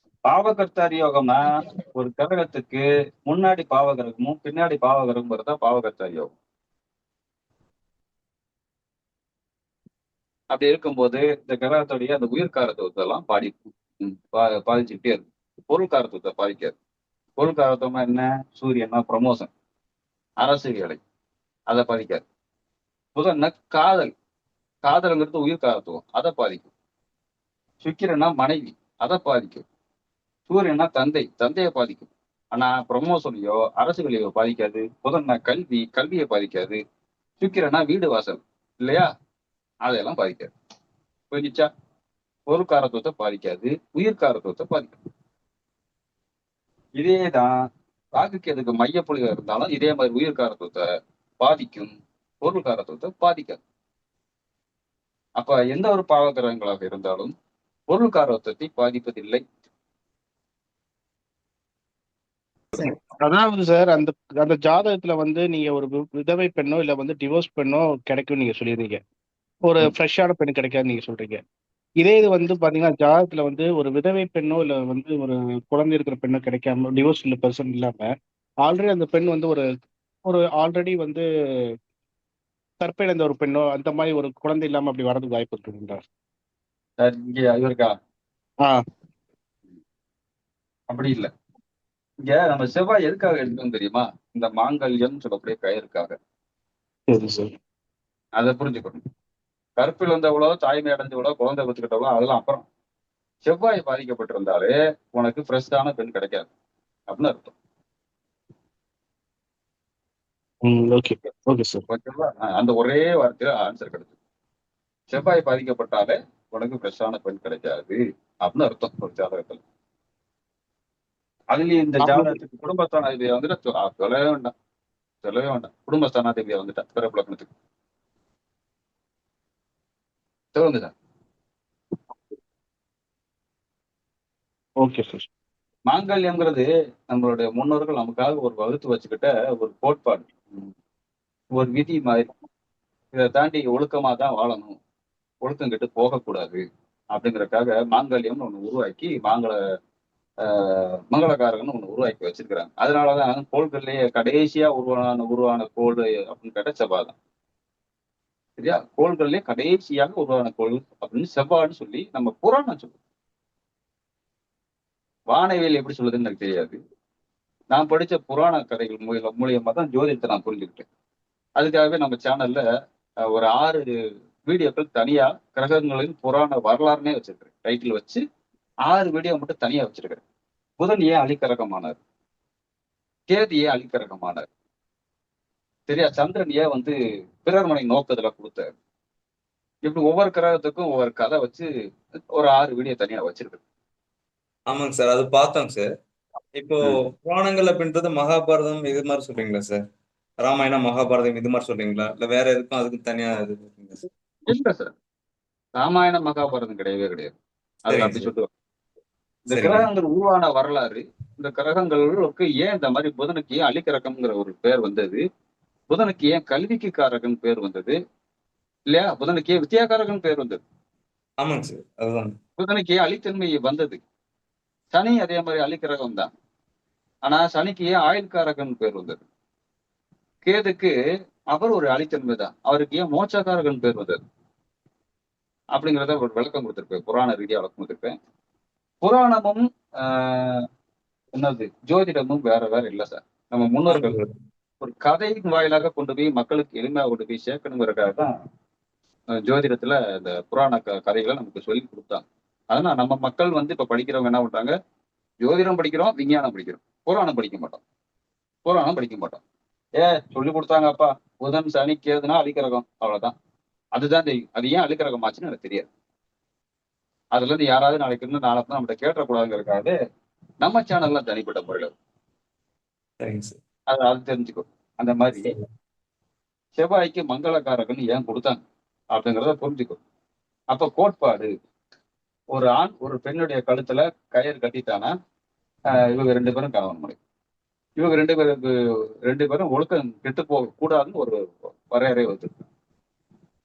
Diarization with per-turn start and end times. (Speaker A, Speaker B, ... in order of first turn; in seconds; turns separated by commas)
Speaker A: 0.3-6.3, Speaker A: 10.5-16.8, Speaker A: 17.4-19.5, Speaker A: 20.4-21.0, Speaker A: 21.7-22.2, Speaker A: 23.2-24.1, Speaker A: 24.8-26.7, Speaker A: 27.8-29.6, Speaker A: 30.5-36.8, Speaker A: 37.4-39.1, Speaker A: 39.8-40.5, Speaker A: 41.3-41.7, Speaker A: 42.5-45.0, Speaker A: 47.0-47.5, Speaker A: 48.2-50.8, Speaker A: 51.4-53.6, Speaker A: 55.4-57.3, Speaker A: 57.9-59.4, Speaker B: 62.8-69.0, Speaker B: 69.7-71.4, Speaker B: 72.0-78.1, Speaker B: 78.7-79.7, Speaker B: 80.2-81.2, Speaker B: 82.8-86.0, Speaker A: 87.0-87.9, Speaker A: 90.9-91.3, Speaker A: 92.3-96.1, Speaker B: 97.1-97.5, Speaker A: 98.4-99.0, Speaker A: 99.8-102.7, Speaker A: 103.5-106.5, Speaker A: 107.1-107.5, Speaker B: 110.6-111.8, Speaker A: 111.9-114.1, Speaker A: 115.1-119.6, Speaker A: 121.5-124.5, Speaker B: 122.0-122.4, Speaker A: 125.2-127.5, Speaker A: 130.5-130.9, Speaker B: 134.8-135.3, Speaker A: 135.9-140.7, Speaker A: 141.5-142.3, Speaker A: 143.1-144.8, Speaker A: 145.4-146.6, Speaker A: 147.1-149.6, Speaker A: 150.5-157.1, Speaker A: 158.6-162.9, Speaker A: 165.3-166.8, Speaker A: 167.7-170.8, Speaker A: 171.6-172.6, Speaker A: 173.3-173.9, Speaker A: 174.4-178.2, Speaker A: 178.9-180.2, Speaker A: 180.8-182.0, Speaker A: 183.3-184.5, Speaker A: 185.9-188.7, Speaker A: 189.8-191.7, Speaker A: 192.3-193.6, Speaker C: 194.7-195.9, Speaker C: 196.5-199.8, Speaker C: 200.4-204.1, Speaker A: 204.5-204.9, Speaker A: 205.8-207.3, Speaker A: 207.8-208.5, Speaker C: 207.9-208.3, Speaker A: 209.5-215.2, Speaker C: 209.5-209.9, Speaker A: 215.9-218.0, Speaker A: 218.9-220.6, Speaker C: 221.4-222.3, Speaker A: 222.6-224.0, Speaker A: 224.9-226.3, Speaker A: 227.3-229.2, Speaker A: 230.4-230.9, Speaker A: 231.5-234.2, Speaker A: 235.7-238.2, Speaker A: 239.0-240.6, Speaker A: 241.3-244.2, Speaker C: 243.9-244.3, Speaker A: 244.8-248.3, Speaker A: 249.4-254.7, Speaker A: 255.4-257.8, Speaker A: 258.6-259.4, Speaker A: 260.0-263.4, Speaker A: 264.0-265.9, Speaker A: 267.3-269.9, Speaker A: 270.6-271.9, Speaker C: 273.2-273.6, Speaker A: 273.9-275.5, Speaker C: 275.4-275.7, Speaker A: 276.8-278.6, Speaker A: 279.1-280.0, Speaker A: 280.7-281.5, Speaker A: 282.5-285.1, Speaker A: 286.1-287.2, Speaker A: 288.0-288.7, Speaker A: 289.3-291.4, Speaker A: 291.9-292.7